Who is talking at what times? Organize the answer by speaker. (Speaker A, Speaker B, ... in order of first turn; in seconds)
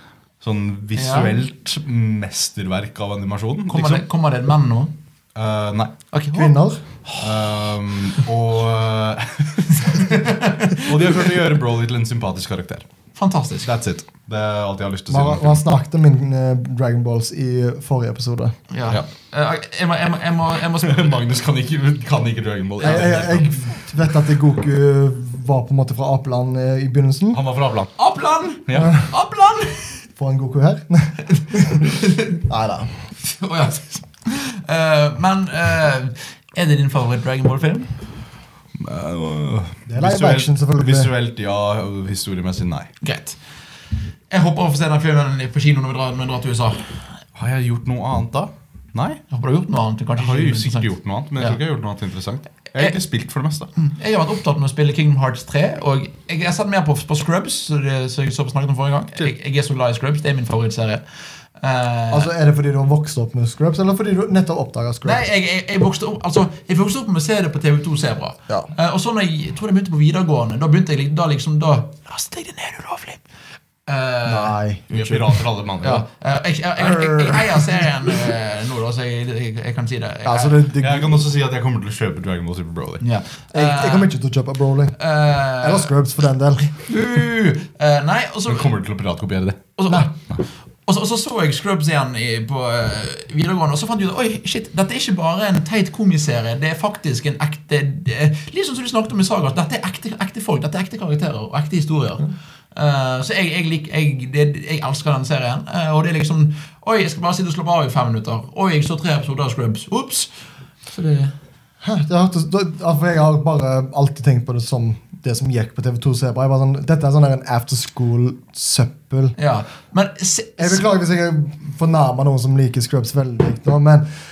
Speaker A: 0.4-4.0, 5.3-5.9, 7.2-12.8, 13.6-15.6, 20.8-23.6, 27.3-28.0, 28.7-29.0, 38.8-42.9, 47.3-49.2, 50.1-53.7, 74.9-76.0, 80.8-83.0, 88.5-89.6
Speaker B: 0.9-1.3, 3.7-4.9, 6.1-6.5, 7.0-7.3, 9.8-10.9, 13.2-13.7, 18.7-21.2, 22.8-23.6, 28.0-30.0, 31.7-32.4, 33.2-37.9, 43.0-43.4, 44.3-46.9, 49.3-51.6, 53.8-61.0, 61.6-62.3, 65.0-73.2, 73.8-80.6, 83.0-84.1, 85.0-85.9, 86.7-88.7, 89.8-90.1, 90.8-110.3, 110.9-111.3, 119.3-120.8
Speaker C: 6.3-6.8, 15.1-18.6, 22.8-27.4, 28.7-29.1, 30.1-31.9, 32.5-33.0, 39.9-41.1, 62.1-65.2, 74.2-75.1, 76.8-78.1, 80.2-81.2, 83.5-85.0, 85.5-86.7, 111.8-119.3, 120.6-124.0